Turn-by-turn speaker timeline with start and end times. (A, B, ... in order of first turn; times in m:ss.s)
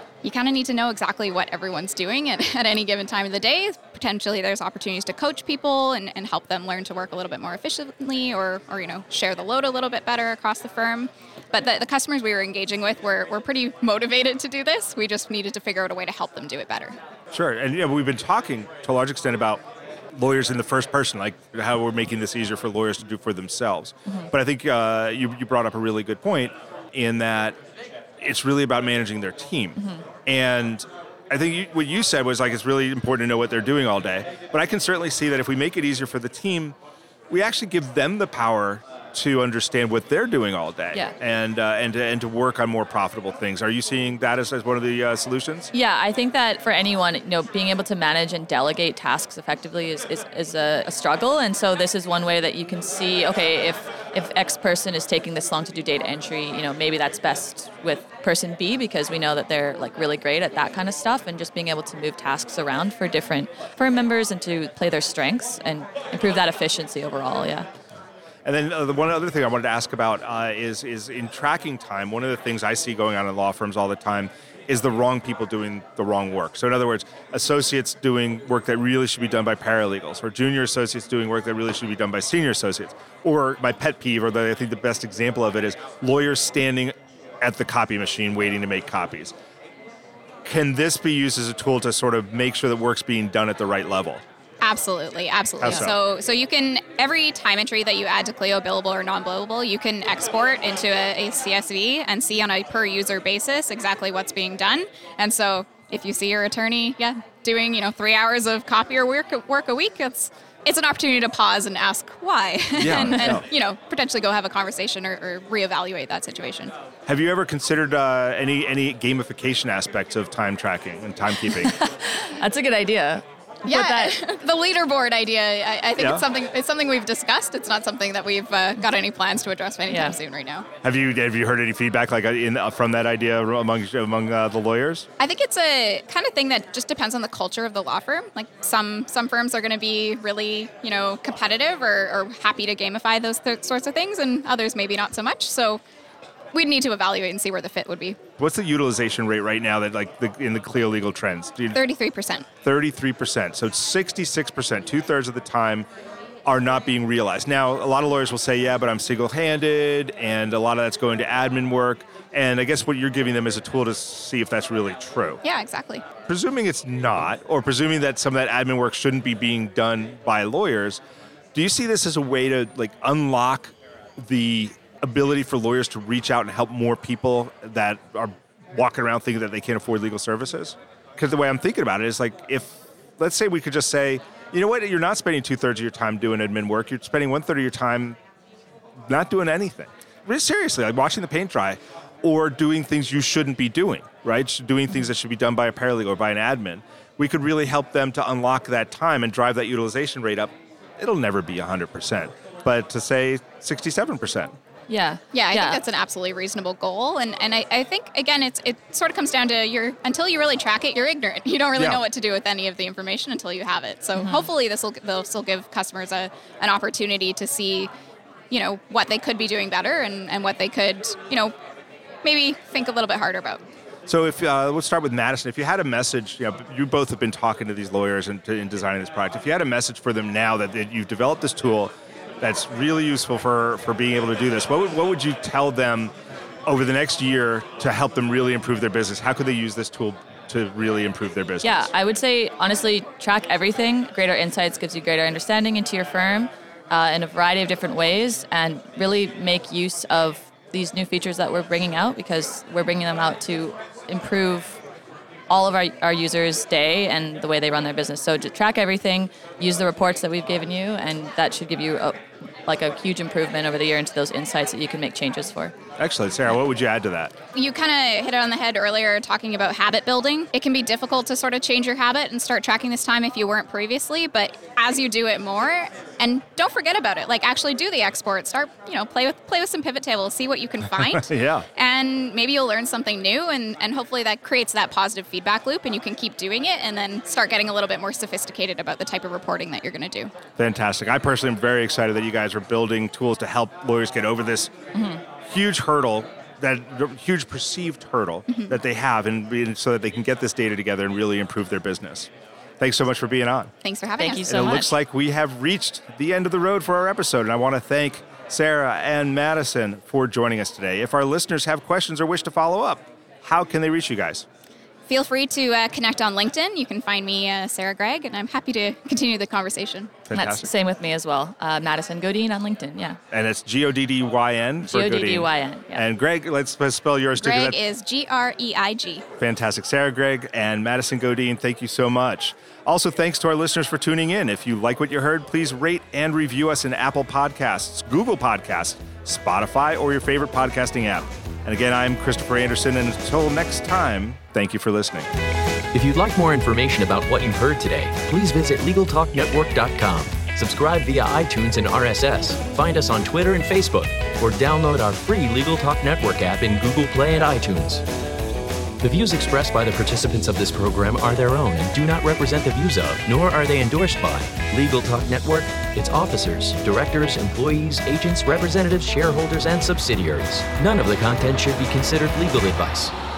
0:00.2-0:17.0 A
0:17.3-0:19.6 B
0:20.1-0:27.6 B
0:28.2-0:36.8 B
0:29.8-0:30.0 C
0:37.3-0:45.7 B
0:45.7-1:07.7 C
1:08.4-1:29.3 B
1:30.4-1:34.2 B
1:34.6-1:56.7 A
1:35.6-1:36.0 B
1:52.8-1:53.4 B
1:57.0-2:01.7 B
2:01.4-2:04.2 C
2:03.7-2:10.7 A
2:06.0-2:06.2 B
2:09.9-2:10.2 C
2:10.8-2:15.1 B
2:15.2-2:25.8 A
2:26.5-2:28.2 A
2:28.4-2:31.8 B
2:31.7-2:32.5 A
2:32.6-2:35.9 B
2:36.4-2:45.4 B
2:45.4-2:46.0 A
2:46.3-2:51.0 B
2:51.5-3:08.2 B
3:09.1-3:24.5 B
3:24.9-3:25.8 C
3:25.3-3:37.9 A
3:31.8-3:32.0 B
3:34.1-3:34.5 C
3:38.5-3:41.5 A
3:42.2-3:43.6 A
3:44.1-3:56.1 B
3:56.7-4:01.9 B
4:01.6-4:14.8 C
4:15.5-4:25.7 C
4:26.0-4:27.3 B
4:27.5-4:50.3 A
4:40.9-4:41.6 B
4:50.6-4:54.7 B
4:54.9-4:55.2 C
4:55.4-5:02.3 B
4:58.5-4:58.8 A
5:02.8-5:03.7 B
5:03.8-5:04.9 A
5:04.2-5:04.9 C
5:04.5-5:14.4 B
5:15.1-5:20.2 A
5:20.2-5:20.7 B
5:20.3-5:23.2 C
5:23.3-5:27.8 B
5:24.8-5:26.1 C
5:27.4-5:29.2 A
5:29.4-5:45.3 B
5:45.9-5:58.0 D
5:59.0-6:13.1 D